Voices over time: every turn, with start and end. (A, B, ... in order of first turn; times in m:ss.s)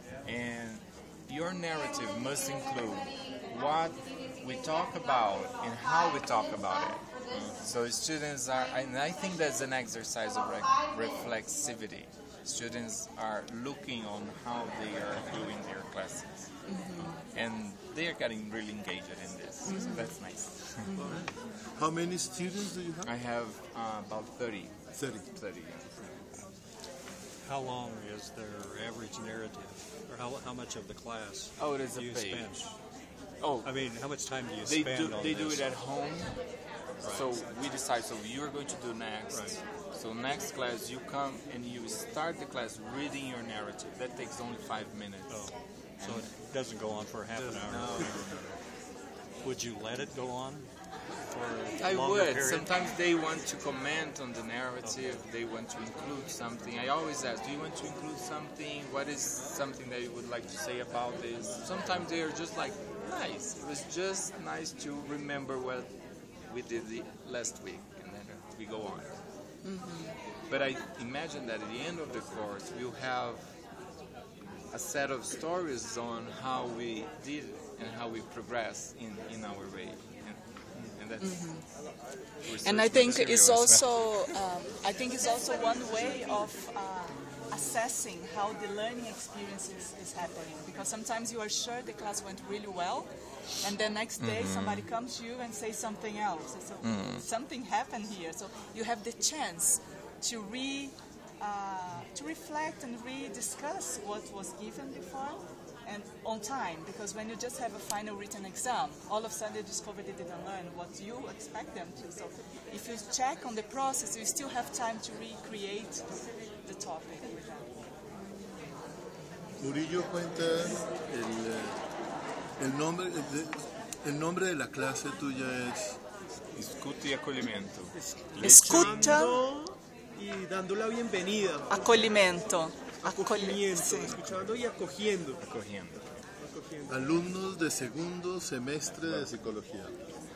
0:00.2-0:20.9 A
0:16.7-0:17.2 B
0:19.6-0:20.2 B
0:20.8-0:21.2 B
0:21.0-0:23.1 C
0:23.0-0:26.3 A
0:25.0-0:25.3 C
0:27.4-0:32.7 D
0:31.6-0:32.5 A
0:33.4-0:46.4 A
0:33.6-0:35.7 D
0:37.0-0:37.3 D
0:39.3-0:39.6 D
0:45.3-0:48.6 D
0:47.3-0:48.3 A
0:49.4-0:50.7 D
0:51.2-0:53.0 D
0:51.7-1:05.9 A
0:54.8-0:55.2 D
1:06.5-1:09.2 A
1:09.6-1:10.2 B
1:10.5-1:13.5 A
1:14.7-1:21.7 A
1:21.2-1:21.6 B
1:22.4-1:23.9 A
1:22.6-1:33.1 B
1:33.6-1:57.7 B
1:34.2-1:34.9 A
1:36.8-1:37.2 A
1:59.6-2:01.8 C
2:02.6-2:06.0 C
2:06.6-2:09.2 A
2:08.0-2:11.8 E
2:08.4-2:09.4 B
2:11.7-2:14.1 B
2:13.0-2:15.4 E
2:15.4-2:16.1 A
2:16.4-2:16.9 E
2:16.9-2:19.9 C